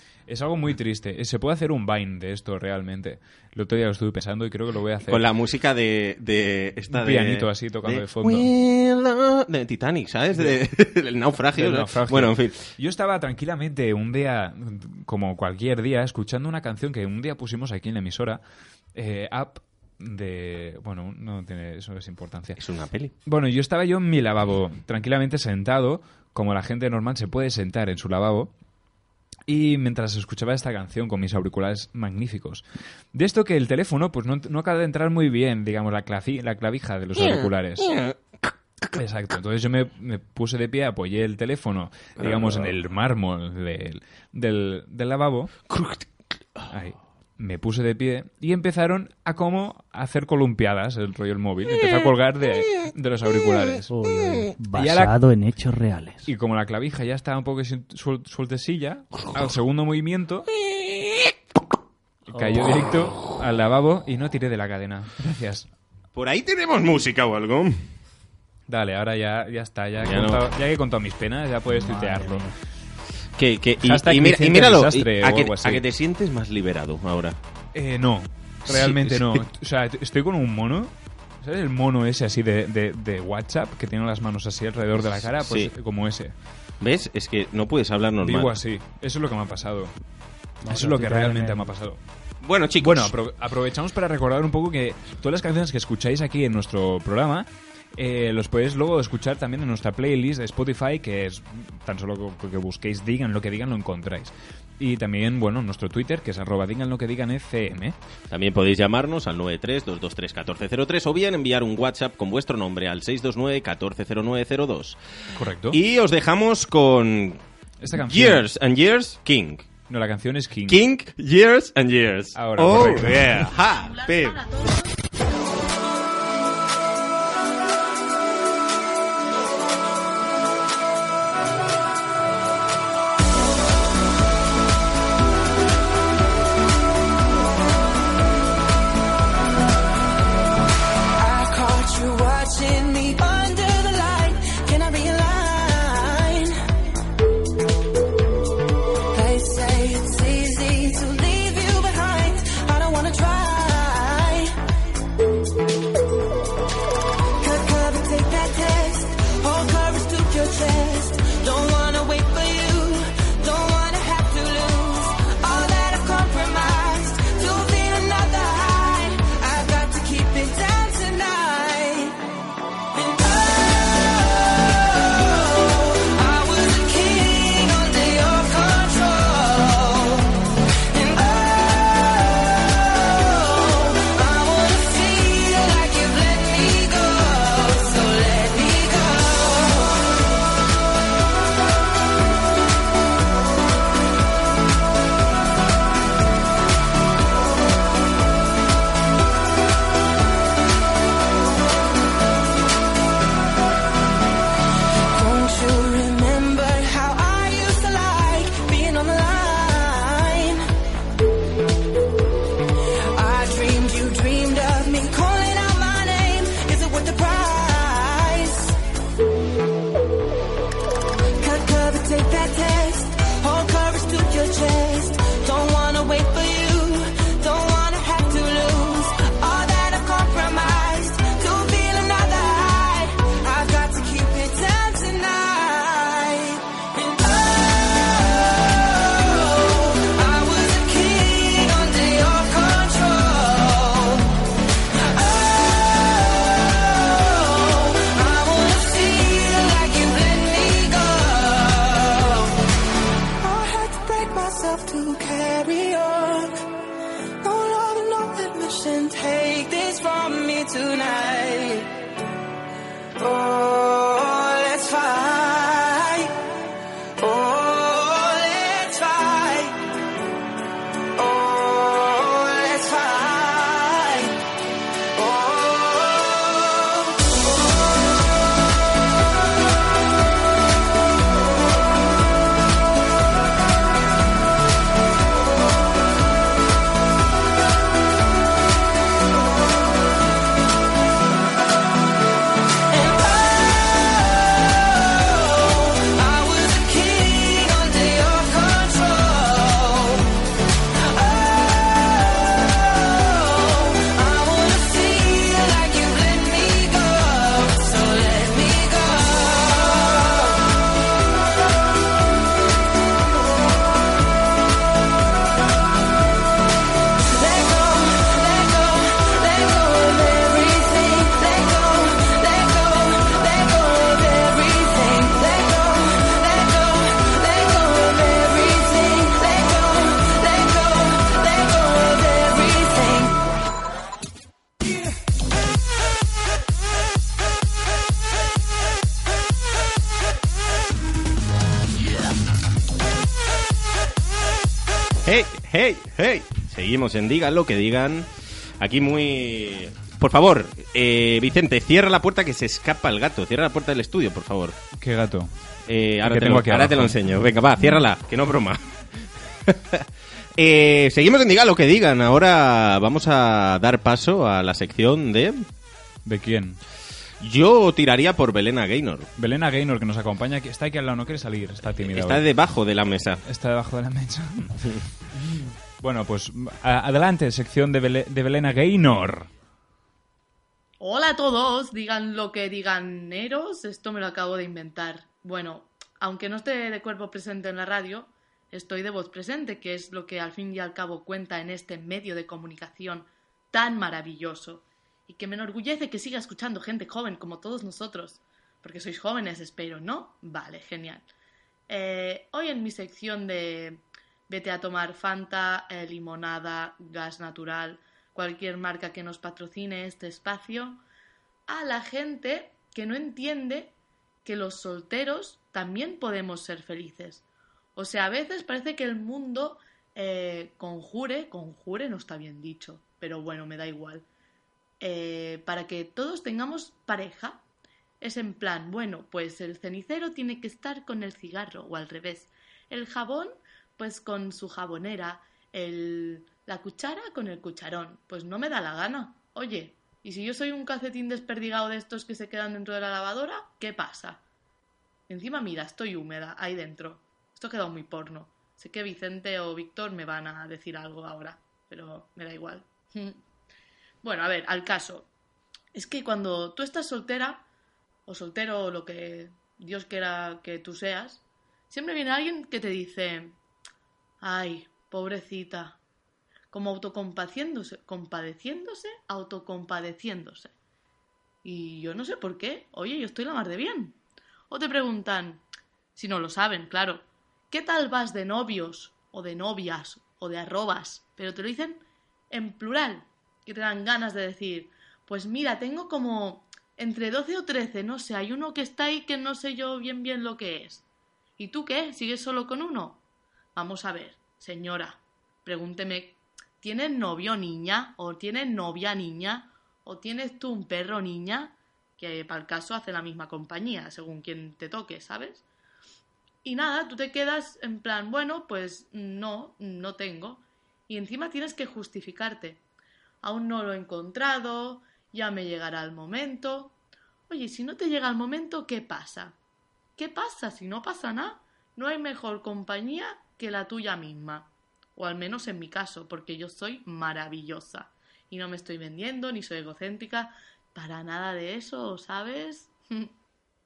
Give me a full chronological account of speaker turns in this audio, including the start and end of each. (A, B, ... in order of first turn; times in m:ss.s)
0:00.3-0:05.2 A
0:05.1-0:12.7 B
0:06.9-0:08.5 A
0:11.5-0:18.4 A
0:18.9-0:22.6 A
0:22.6-0:23.1 B
0:23.2-0:28.5 A
0:29.5-0:38.0 A
0:37.2-0:38.2 B
0:38.9-0:45.6 A
0:42.2-0:42.7 B
0:45.7-0:46.0 B
0:46.7-0:53.9 A
0:53.9-0:56.3 C
0:54.7-0:55.1 A
0:56.2-1:00.5 A
1:02.3-1:05.7 A
1:02.3-1:02.7 C
1:06.1-1:07.8 B
1:08.7-1:12.5 A
1:10.0-1:10.4 B
1:11.7-1:12.5 C
1:13.4-1:17.4 B
1:13.8-1:15.8 A
1:17.7-1:26.3 A
1:18.7-1:19.4 B
1:25.2-1:25.7 B
1:26.8-1:28.5 B
1:28.2-1:29.9 A
1:30.6-1:31.7 C
1:30.7-1:32.0 A
1:32.4-1:33.1 B
1:32.8-1:47.9 A
1:48.3-1:55.0 B
1:55.4-1:55.8 A
1:55.7-1:57.4 B
1:57.8-1:58.4 A
1:58.0-1:59.7 B
1:59.9-2:00.8 A
2:00.7-2:04.4 B
2:02.3-2:03.5 A
2:03.7-2:04.9 D
2:21.2-2:26.6 E
2:29.1-2:34.6 E
2:37.4-2:52.2 E
2:52.9-3:10.1 E
3:25.1-3:30.6 E
3:33.1-3:38.8 E
3:41.4-4:04.5 E
4:05.1-4:12.6 E
4:13.4-4:16.5 E
4:17.4-4:21.9 E
4:23.2-4:26.4 E
4:27.2-4:29.8 E
4:31.2-4:34.4 E
4:35.1-4:37.1 E
4:52.9-5:00.4 E
5:01.0-5:10.8 E
5:17.2-5:33.4 E
5:45.2-5:54.8 B
5:55.0-5:55.5 A
5:55.9-5:58.8 B
5:56.2-5:57.2 A
5:59.7-6:00.0 B
6:00.6-6:05.6 B
6:06.2-6:06.8 A
6:07.4-6:09.3 B
6:09.4-6:12.4 A
6:12.0-6:13.4 B
6:13.4-6:14.8 A
6:15.4-6:19.5 A
6:21.0-6:41.2 D
6:41.9-6:51.0 D
6:51.7-6:53.9 D
6:54.4-6:57.4 D
6:57.9-7:04.2 D
7:05.0-7:07.6 D
7:08.2-7:24.4 D
7:25.3-7:33.4 D
7:34.2-7:35.3 D
7:35.9-7:37.6 D
7:38.2-7:43.5 D
7:44.4-7:46.0 D
7:46.7-7:50.7 D
7:51.6-7:54.2 D
7:54.7-7:55.6 D
7:56.1-8:11.0 D
8:11.6-8:13.2 D
8:13.7-8:25.6 D
8:26.6-8:32.8 D
8:33.4-8:36.9 D
8:37.5-8:39.5 D
8:40.2-8:53.3 D